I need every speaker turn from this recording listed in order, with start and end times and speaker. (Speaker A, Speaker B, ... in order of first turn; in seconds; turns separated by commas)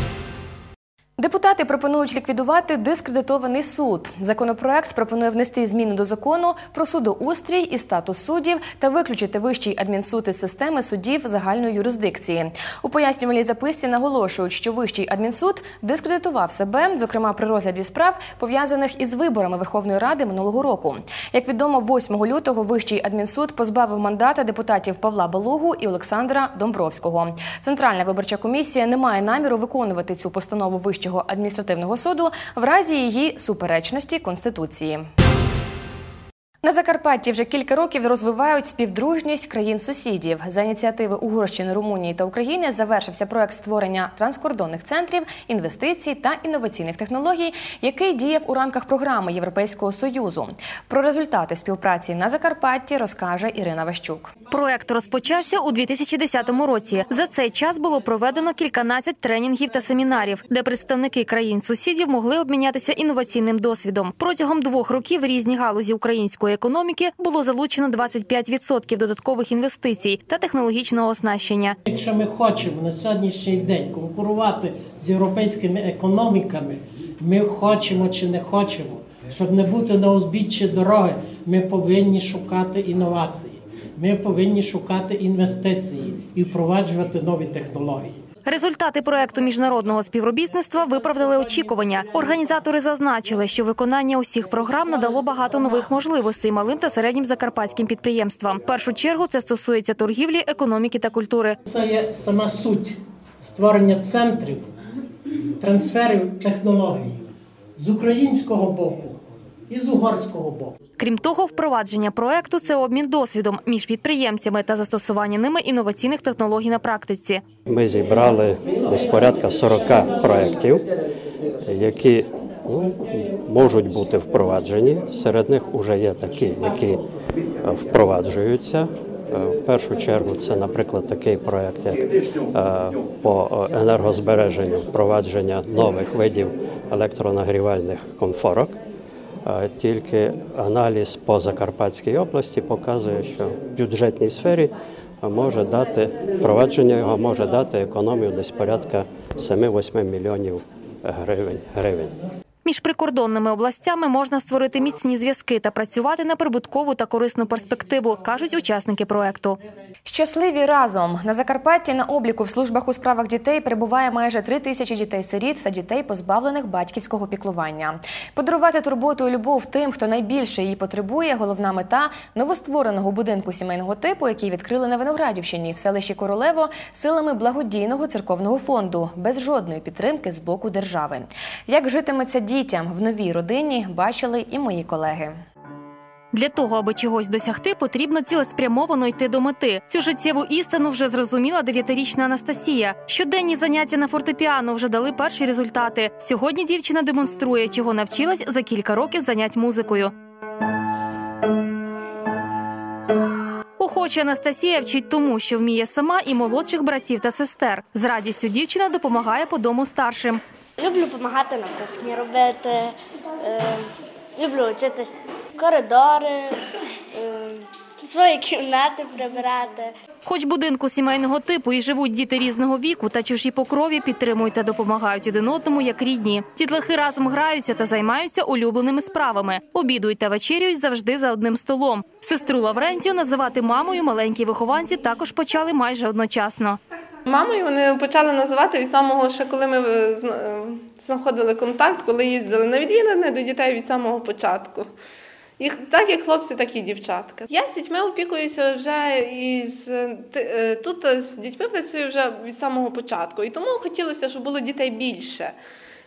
Speaker A: 1.2-35.1, Speaker A: 36.6-54.3, Speaker B: 54.5-71.8, Speaker C: 71.8-88.2, Speaker B: 88.5-101.6, Speaker C: 101.7-104.8, Speaker C: 105.6-110.8, Speaker B: 111.0-117.4, Speaker D: 117.7-120.9, Speaker D: 121.6-127.0, Speaker D: 127.6-138.8, Speaker D: 139.4-152.2, Speaker B: 152.7-159.6, Speaker A: 160.1-185.4, Speaker B: 186.3-200.1, Speaker B: 203.8-210.4, Speaker E: 210.8-213.8, Speaker E: 214.4-216.6, Speaker E: 217.2-219.9, Speaker B: 220.2-236.8, Speaker F: 237.2-244.9, Speaker F: 245.6-255.6